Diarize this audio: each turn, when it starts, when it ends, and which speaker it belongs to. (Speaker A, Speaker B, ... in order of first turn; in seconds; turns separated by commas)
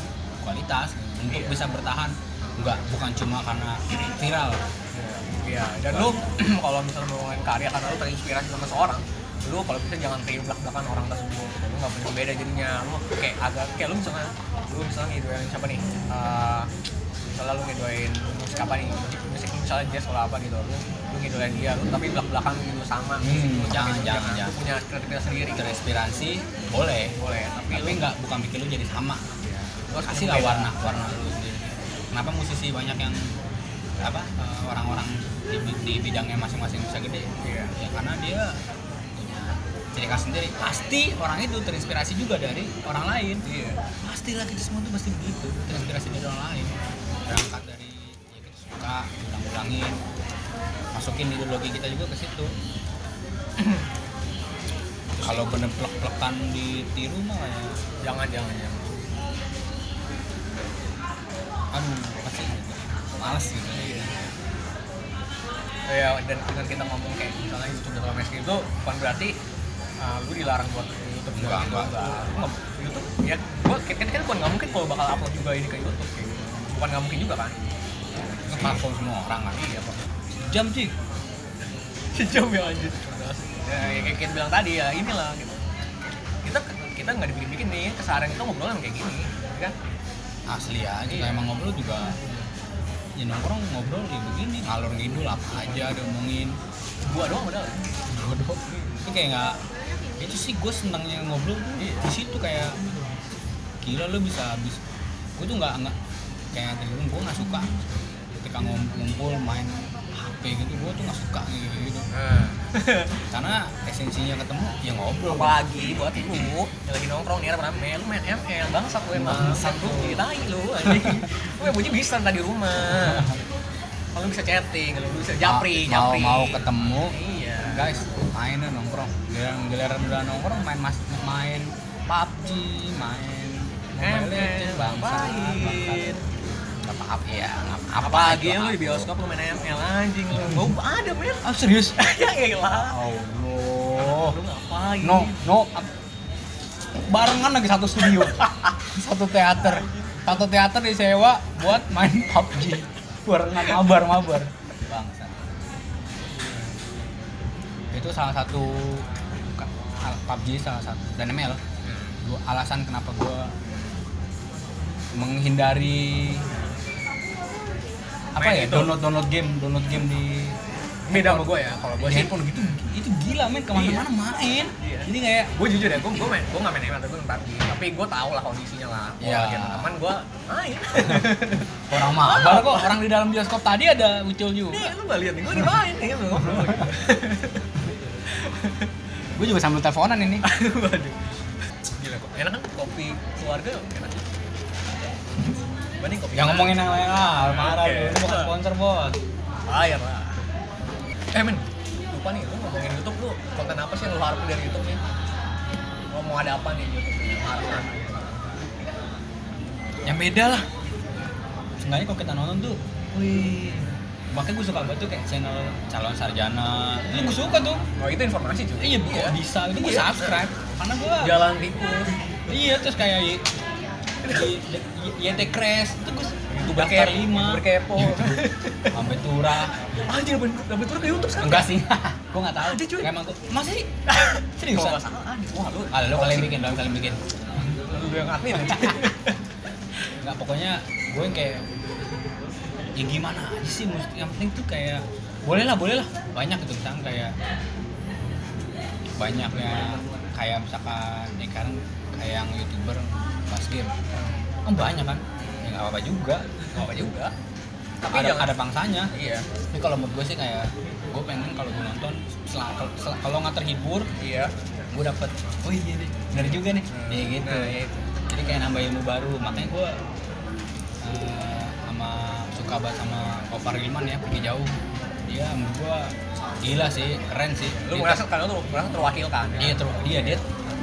Speaker A: 0.4-4.6, Speaker B: 1.3-1.6, Speaker B: 2.4-2.7, Speaker B: 4.9-16.7, Speaker A: 5.9-6.2, Speaker B: 17.3-25.8, Speaker A: 23.2-24.5, Speaker A: 25.5-27.1, Speaker B: 27.1-28.0, Speaker A: 27.7-29.4, Speaker B: 29.9-31.1, Speaker A: 30.0-33.3, Speaker A: 34.0-38.6, Speaker B: 37.4-37.7, Speaker A: 39.1-43.4, Speaker B: 43.4-43.8, Speaker A: 44.0-46.7, Speaker A: 47.2-50.0, Speaker A: 50.9-52.5, Speaker B: 53.6-53.8, Speaker A: 55.2-57.8, Speaker B: 58.0-59.1, Speaker A: 61.7-64.2, Speaker B: 63.7-64.1, Speaker B: 65.9-69.4, Speaker B: 70.0-77.6, Speaker A: 71.3-72.3, Speaker B: 78.2-78.8, Speaker A: 78.4-79.7, Speaker B: 79.5-80.0, Speaker A: 80.3-81.0, Speaker B: 82.1-85.6, Speaker A: 83.8-84.2, Speaker B: 86.4-89.7, Speaker A: 90.5-92.2, Speaker B: 91.1-91.4, Speaker A: 93.2-96.6, Speaker B: 97.0-97.9, Speaker A: 98.1-99.6, Speaker B: 98.7-99.0, Speaker A: 100.2-102.8, Speaker B: 101.8-102.0, Speaker A: 103.8-104.8, Speaker A: 105.4-105.9, Speaker A: 106.5-112.1, Speaker B: 112.1-113.2, Speaker A: 113.3-116.4, Speaker B: 115.3-123.4, Speaker A: 119.1-120.2, Speaker A: 120.9-121.2, Speaker A: 123.0-123.4, Speaker B: 124.1-127.9, Speaker A: 125.4-136.2, Speaker B: 134.0-136.2, Speaker A: 136.8-139.1, Speaker B: 138.0-143.0, Speaker A: 140.4-140.7, Speaker A: 141.4-142.0, Speaker A: 142.7-144.4, Speaker B: 144.0-145.4, Speaker A: 145.0-145.9, Speaker A: 146.9-155.8, Speaker B: 149.6-150.3, Speaker A: 157.9-161.6, Speaker B: 161.8-162.2, Speaker A: 162.2-163.5, Speaker B: 163.7-163.9, Speaker A: 165.1-166.4, Speaker A: 168.3-170.6, Speaker B: 168.4-168.9, Speaker B: 171.1-172.7, Speaker A: 171.1-175.5, Speaker B: 173.7-174.0, Speaker B: 174.8-183.0, Speaker A: 179.2-179.9, Speaker A: 181.9-184.9, Speaker B: 184.7-187.7, Speaker A: 186.5-186.9, Speaker B: 188.3-188.9, Speaker A: 189.3-190.4, Speaker B: 190.4-191.3, Speaker B: 191.8-194.3, Speaker B: 196.0-196.8, Speaker A: 196.3-199.2, Speaker B: 197.3-198.5, Speaker B: 199.7-200.4, Speaker B: 201.3-205.0, Speaker B: 206.1-208.4, Speaker A: 210.0-210.7, Speaker A: 211.8-217.8, Speaker B: 217.1-217.4, Speaker B: 217.9-220.4, Speaker A: 218.8-221.4, Speaker B: 221.2-222.5, Speaker A: 222.5-223.5, Speaker B: 224.2-224.5, Speaker A: 224.2-229.8, Speaker B: 226.5-229.0, Speaker B: 229.9-231.7, Speaker A: 231.4-235.0, Speaker B: 232.6-233.1, Speaker B: 234.1-236.6, Speaker A: 235.9-237.8, Speaker B: 237.9-239.4, Speaker A: 238.5-239.1, Speaker A: 240.1-241.7, Speaker A: 242.9-247.3, Speaker A: 249.2-253.9, Speaker B: 249.5-250.0, Speaker B: 254.1-254.4, Speaker A: 254.6-257.1, Speaker B: 256.6-257.3, Speaker B: 258.0-258.6, Speaker A: 258.1-259.1, Speaker B: 259.1-259.5, Speaker A: 259.7-264.1, Speaker B: 264.2-264.5, Speaker A: 264.9-270.0, Speaker B: 266.3-268.1, Speaker A: 271.0-274.7, Speaker A: 275.3-278.2, Speaker B: 277.8-280.4, Speaker A: 279.6-280.4